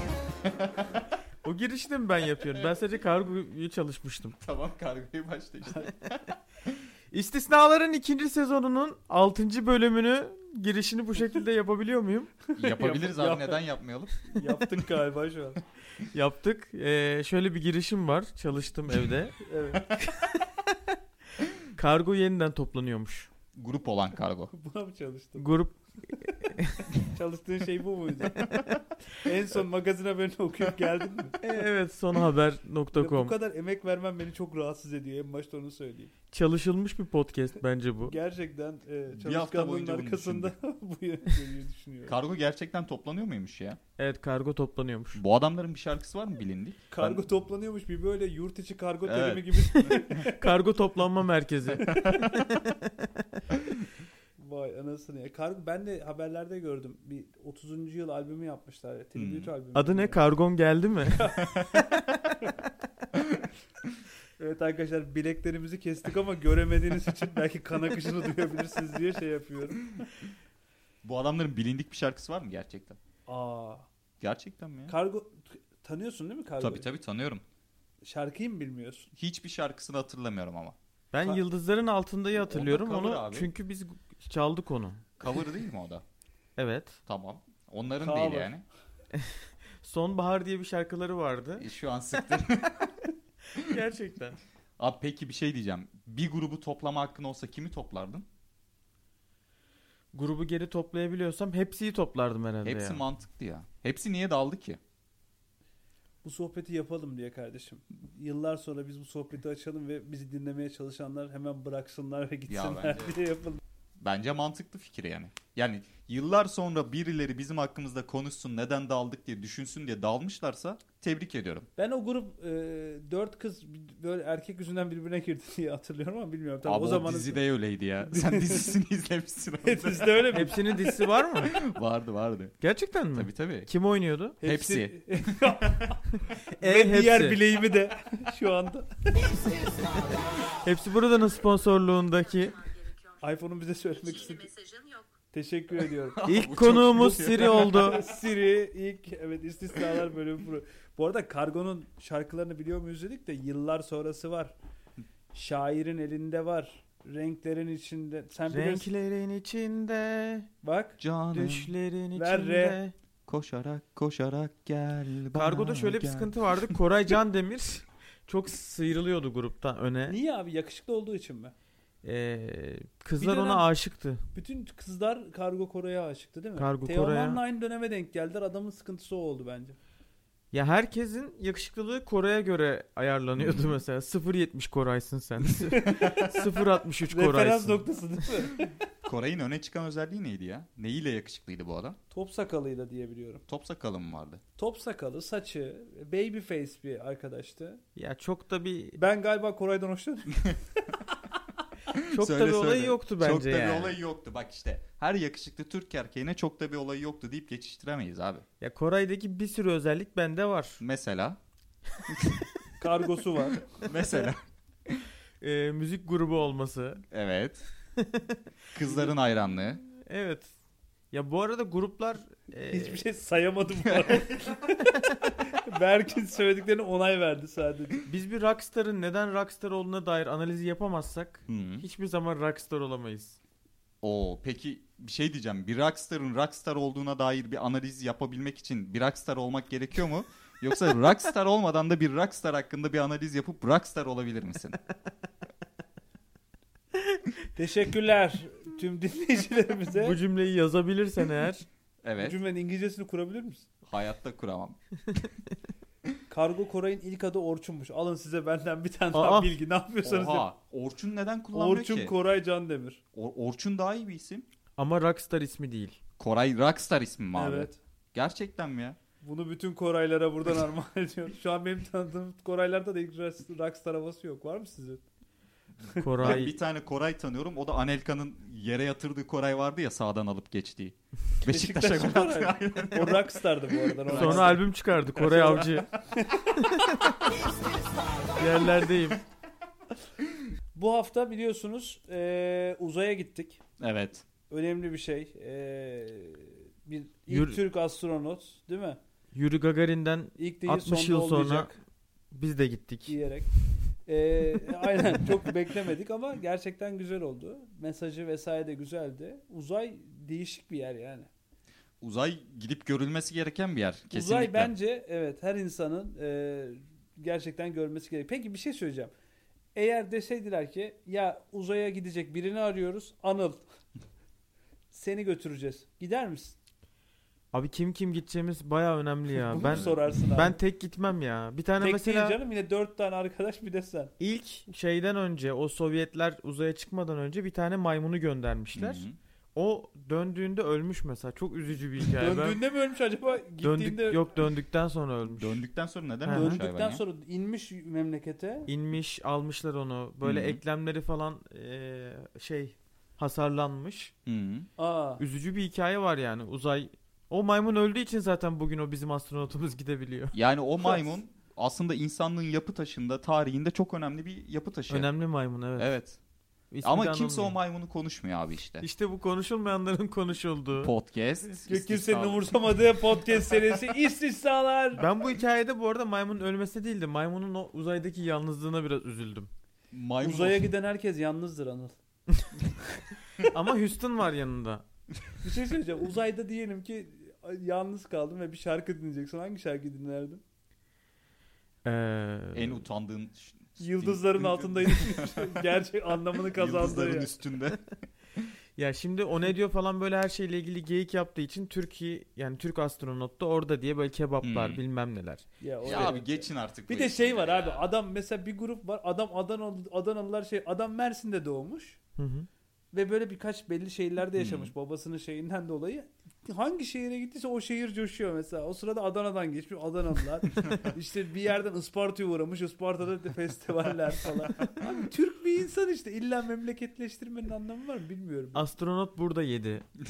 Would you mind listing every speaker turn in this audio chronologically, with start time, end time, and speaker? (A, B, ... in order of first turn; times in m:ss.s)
0:00.4-0:00.8 A
0:01.4-0:04.4 B
0:04.4-0:06.3 A
0:07.1-0:12.3 B
0:12.5-0:13.6 C
0:12.6-0:14.4 A
0:14.2-0:15.6 C
0:16.1-0:19.4 B
0:19.4-0:19.9 C
0:20.0-0:20.8 B
0:21.7-0:23.3 B
0:23.5-0:24.5 A
0:24.5-0:25.5 C
0:25.4-0:26.9 B
0:27.0-0:28.5 C
0:28.4-0:28.8 B
0:29.2-0:31.4 C
0:31.4-0:33.3 B
0:32.9-0:36.1 C
0:36.3-0:38.2 B
0:38.0-0:42.2 C
0:39.1-0:40.5 A
0:42.1-0:43.8 A
0:44.0-0:45.2 B
0:45.1-0:47.2 A
0:46.9-0:50.5 C
0:49.0-0:50.2 A
0:50.2-0:53.3 B
0:51.8-0:52.4 C
0:51.9-0:52.2 A
0:54.4-1:00.2 C
0:59.1-0:59.5 A
0:59.7-1:01.3 B
1:01.1-1:02.6 C
1:01.4-1:01.8 A
1:03.2-1:03.4 A
1:04.4-1:10.0 C
1:11.0-1:13.0 A
1:13.3-1:13.9 C
1:14.2-1:14.9 A
1:14.9-1:16.9 C
1:16.6-1:17.4 A
1:18.0-1:19.1 C
1:19.2-1:20.8 A
1:21.1-1:25.0 B
1:22.4-1:23.5 A
1:25.2-1:26.0 A
1:26.6-1:27.0 B
1:27.1-1:28.6 A
1:28.0-1:28.5 C
1:29.1-1:31.6 B
1:31.6-1:33.0 A
1:33.6-1:34.4 B
1:34.8-1:38.2 A
1:40.1-1:43.0 B
1:42.6-1:44.8 A
1:46.2-1:53.6 C
1:52.5-1:53.2 A
1:54.0-2:01.7 A
2:01.8-2:07.4 C
2:06.6-2:10.3 A
2:08.1-2:08.7 C
2:09.6-2:11.0 C
2:10.3-2:11.6 B
2:11.4-2:12.6 A
2:12.6-2:14.4 B
2:13.1-2:13.7 A
2:14.4-2:16.0 C
2:14.4-2:15.4 A
2:16.5-2:17.4 B
2:16.6-2:19.3 C
2:20.6-2:22.7 B
2:23.2-2:26.2 C
2:26.1-2:28.0 A
2:26.2-2:28.0 B
2:27.3-2:34.5 C
2:35.3-2:38.9 C
2:38.5-2:40.5 B
2:40.6-2:41.0 C
2:41.0-2:41.7 A
2:41.3-2:42.9 B
2:42.1-2:42.8 C
2:43.3-2:46.3 A
2:45.3-2:50.2 B
2:50.1-2:51.5 C
2:52.0-2:54.2 B
2:53.2-2:53.7 C
2:54.3-2:59.8 C
2:56.6-2:57.4 B
3:00.5-3:07.8 B
3:03.4-3:03.7 A
3:05.7-3:06.2 C
3:06.0-3:06.3 A
3:07.1-3:08.7 C
3:09.0-3:12.0 A
3:12.1-3:13.4 C
3:13.5-3:14.4 A
3:14.6-3:17.8 C
3:18.0-3:19.0 B
3:19.0-3:20.6 C
3:21.9-3:28.4 A
3:22.1-3:24.0 B
3:28.6-3:30.8 B
3:30.8-3:31.4 A
3:32.1-3:32.4 A
3:32.8-3:33.6 C
3:33.6-3:35.0 A
3:35.4-3:37.0 B
3:37.1-3:37.6 A
3:38.0-3:38.4 B
3:38.7-3:39.8 A
3:39.9-3:40.5 B
3:41.1-3:43.0 B
3:42.7-3:48.0 C
3:48.1-3:53.4 B
3:51.5-3:51.8 A
3:54.0-4:04.8 A
4:07.6-4:10.2 C
4:10.0-4:11.6 B
4:12.0-4:12.4 A
4:12.2-4:13.6 C
4:13.8-4:14.8 A
4:16.3-4:20.4 C
4:19.1-4:19.5 B
4:20.0-4:22.1 A
4:21.5-4:23.0 C
4:23.1-4:24.4 A
4:24.8-4:26.0 B
4:26.2-4:29.0 A
4:27.4-4:27.8 C
4:29.2-4:35.0 C
4:36.0-4:36.5 B
4:36.2-4:43.4 A
4:41.4-4:47.0 C
4:43.9-4:44.5 A
4:44.1-4:45.9 B
4:46.6-4:47.1 B
4:48.4-4:49.2 B
4:50.7-4:53.6 C
4:53.8-4:54.2 A
4:54.5-4:59.0 C
4:57.3-4:57.6 B
4:59.3-5:01.7 B
5:00.4-5:01.8 C
5:02.3-5:03.1 B
5:03.0-5:03.5 C
5:04.1-5:11.3 C
5:12.0-5:14.7 A
5:14.1-5:19.1 C
5:19.7-5:23.6 C
5:24.9-5:26.6 C
5:27.5-5:32.4 B
5:29.5-5:30.6 C
5:29.7-5:30.0 A
5:31.8-5:34.1 C
5:34.2-5:42.6 B
5:38.7-5:39.2 A
5:42.2-5:44.2 C
5:43.6-5:45.6 B
5:45.3-5:47.0 A
5:46.2-5:46.6 B
5:46.3-5:48.7 C
5:48.7-5:54.1 B
5:50.2-5:50.6 A
5:54.2-5:54.7 A
5:54.8-5:55.2 C
5:55.2-6:00.4 B
6:00.3-6:05.1 A
6:04.9-6:05.9 B
6:05.8-6:06.2 A
6:06.7-6:07.6 B
6:06.8-6:08.8 A
6:08.8-6:10.9 B
6:10.8-6:12.8 A
6:11.7-6:15.0 C
6:15.0-6:19.5 B
6:19.9-6:20.7 A
6:20.2-6:22.0 C
6:23.5-6:24.8 B
6:25.4-6:30.4 C
6:31.8-6:32.8 B
6:32.5-6:35.6 A
6:33.8-6:37.3 C
6:36.5-6:37.9 A
6:38.8-6:46.2 B
6:44.4-6:44.8 A
6:45.6-6:52.0 C
6:45.8-6:47.9 A
6:52.2-6:52.5 B
6:52.9-7:08.6 C
6:54.4-6:54.7 A
7:08.5-7:09.9 B